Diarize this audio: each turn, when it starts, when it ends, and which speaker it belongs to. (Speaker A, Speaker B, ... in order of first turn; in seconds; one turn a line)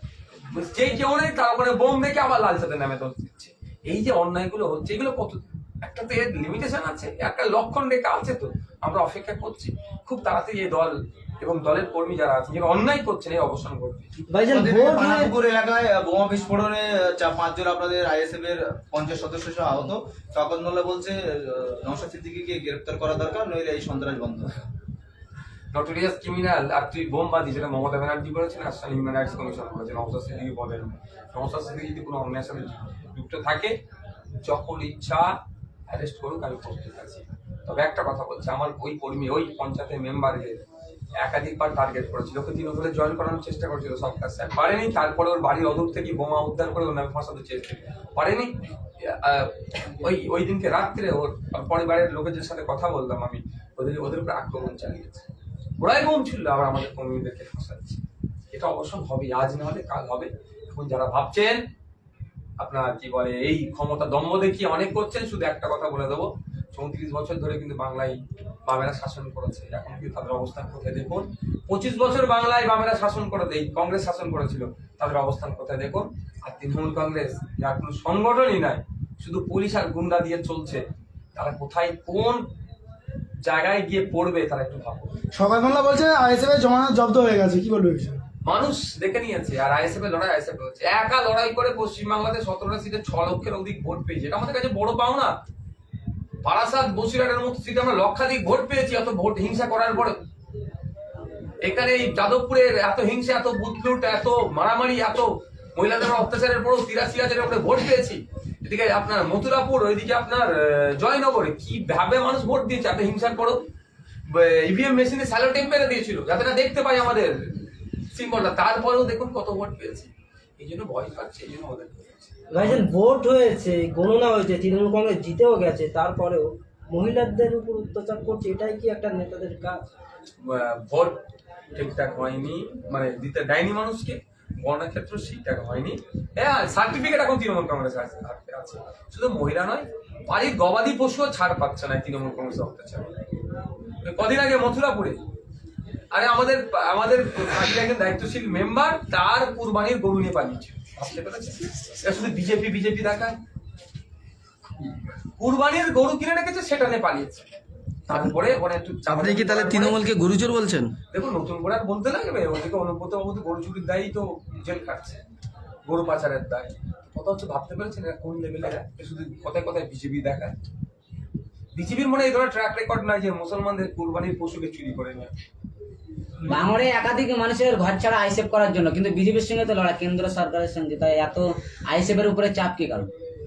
Speaker A: 0.4-14.1
Speaker B: 14.3-15.3
Speaker C: 14.5-24.5
Speaker A: 25.7-33.8
Speaker A: 34.4-35.4
Speaker A: 35.9-40.6
Speaker A: 41.2-55.3
Speaker A: 55.8-61.6
Speaker A: 62.6-82.4
Speaker A: 83.4-85.1
Speaker D: 85.3-88.2
Speaker A: 88.4-95.3
Speaker A: 96.4-100.2
Speaker A: 101.6-113.6
Speaker A: 114.3-122.8
Speaker B: 122.5-129.8
Speaker A: 130.4-143.1
Speaker A: 144.0-145.2
Speaker A: 146.1-153.4
Speaker A: 155.4-157.5
Speaker E: 158.1-158.4
Speaker A: 158.1-160.0
Speaker E: 159.1-160.9
Speaker A: 161.1-165.2
Speaker A: 165.8-170.5
Speaker A: 171.7-175.3
Speaker F: 176.4-183.1